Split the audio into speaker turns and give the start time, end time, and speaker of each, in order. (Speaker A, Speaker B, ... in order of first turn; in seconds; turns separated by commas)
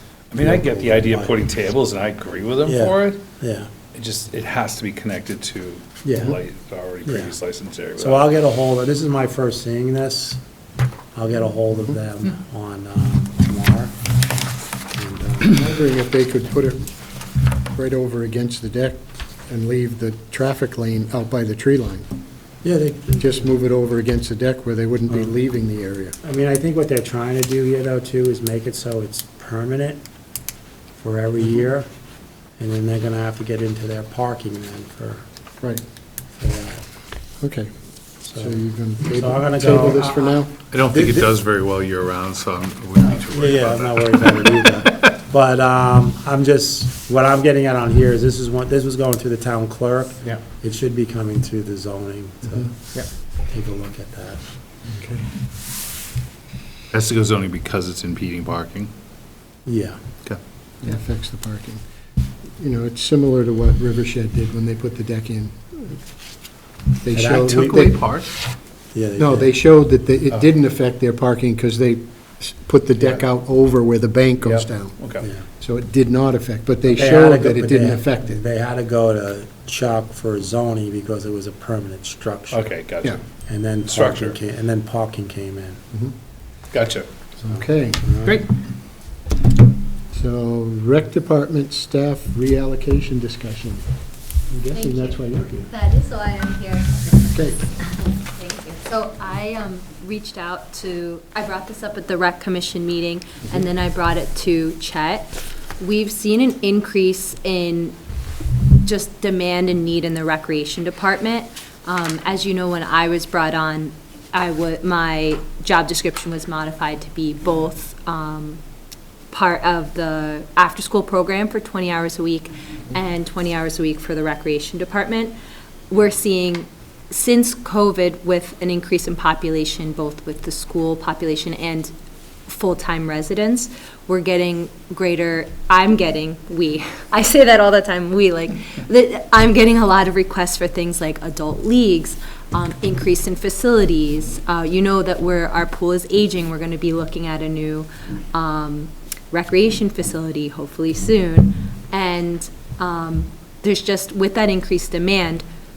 Speaker A: 0.3-3.2, Speaker B: 0.4-1.3, Speaker B: 2.6-3.7, Speaker A: 3.9-8.2, Speaker B: 6.0-6.4, Speaker B: 7.0-7.3, Speaker B: 8.0-10.4, Speaker B: 11.2-13.9, Speaker B: 14.9-15.7, Speaker C: 15.5-16.9, Speaker C: 17.6-22.1, Speaker B: 22.6-23.4, Speaker C: 23.2-26.2, Speaker B: 26.2-30.0, Speaker B: 31.0-31.9, Speaker B: 32.6-35.2, Speaker B: 36.3-36.9, Speaker C: 37.4-40.5, Speaker B: 38.3-41.3, Speaker A: 40.7-45.1, Speaker B: 43.3-54.5, Speaker C: 54.9-55.3, Speaker A: 56.9-58.9, Speaker B: 59.7-60.0, Speaker C: 60.8-61.8, Speaker C: 62.6-66.0, Speaker C: 67.0-68.0, Speaker B: 67.1-67.9, Speaker A: 67.5-68.3, Speaker B: 68.9-69.5, Speaker C: 69.2-75.0, Speaker A: 74.4-75.3, Speaker C: 75.5-78.4, Speaker B: 76.9-82.7, Speaker A: 82.5-83.2, Speaker B: 83.5-85.8, Speaker A: 83.8-84.4, Speaker A: 86.7-87.1, Speaker C: 87.4-88.5, Speaker B: 87.5-88.4, Speaker C: 90.1-93.8, Speaker C: 94.5-95.7, Speaker D: 94.7-108.0, Speaker C: 97.2-97.7, Speaker D: 108.8-118.6, Speaker D: 119.3-125.3, Speaker D: 125.9-131.9, Speaker D: 132.5-155.4